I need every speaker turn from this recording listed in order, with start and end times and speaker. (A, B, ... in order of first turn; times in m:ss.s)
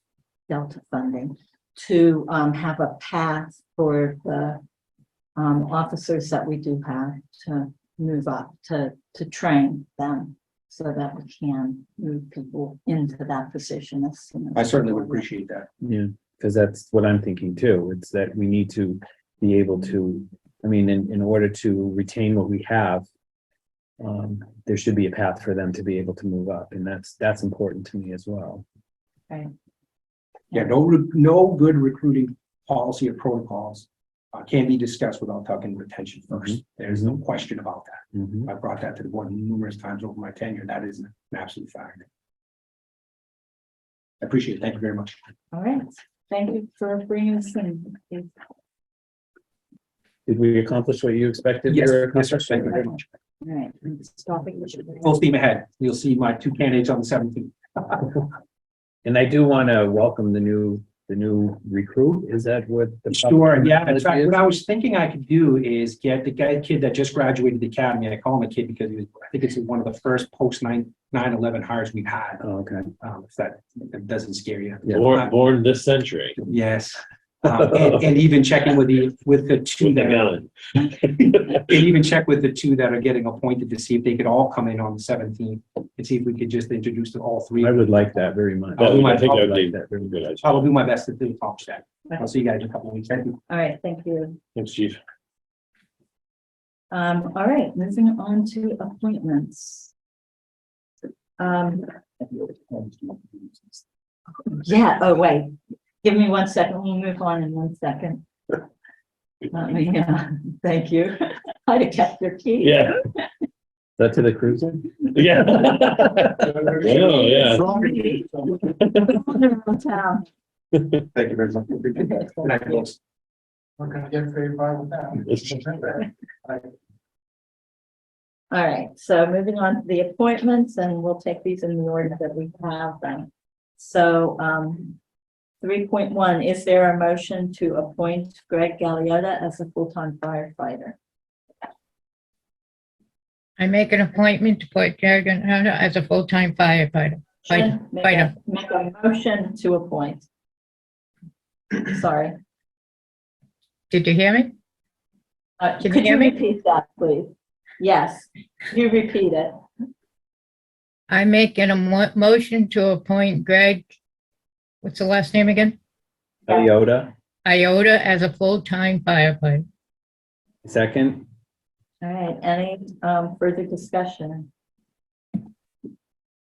0:00.5-0:04.6 A
0:05.4-0:15.2 A
0:14.6-0:15.7 B
0:15.8-0:23.1 C
0:24.0-0:28.6 C
0:30.5-0:42.1 B
0:36.9-0:37.2 C
0:44.2-0:45.2 B
0:45.5-0:48.3 A
0:50.3-0:53.0 C
0:51.7-0:53.0 B
0:53.4-0:55.1 A
0:55.0-0:58.1 B
0:59.0-1:04.5 C
1:03.1-1:12.4 B
1:12.4-1:12.9 C
1:13.0-1:15.3 B
1:14.9-1:16.4 D
1:16.4-1:20.4 B
1:19.8-1:21.6 D
1:21.5-1:27.9 B
1:27.6-1:30.1 C
1:28.8-1:29.6 B
1:28.8-1:30.5 D
1:30.4-1:33.4 B
1:33.5-1:34.4 A
1:34.6-1:35.0 D
1:36.9-1:39.9 A
1:41.4-1:43.1 A
1:44.5-1:48.2 A
1:49.5-1:53.2 A
1:52.6-1:53.0 D
1:54.0-1:55.2 C
1:55.1-1:57.6 D
1:56.5-1:58.5 E
1:57.1-1:58.3 A
1:59.0-2:00.3 A
2:01.2-2:01.6 B
2:02.4-2:03.0 B
2:03.8-2:06.6 E
2:05.3-2:05.6 D
2:08.5-2:15.0 A
2:15.6-2:21.0 A
2:23.6-2:28.3 F
2:27.4-2:30.3 A
2:31.7-2:32.4 A
2:33.9-2:34.6 F
2:35.6-2:39.5 A
2:35.8-2:36.4 F
2:41.1-2:43.8 F
2:44.8-2:45.8 F
2:46.5-2:47.1 C
2:47.4-2:49.7 F
2:50.6-2:51.3 C
2:52.0-2:54.5 A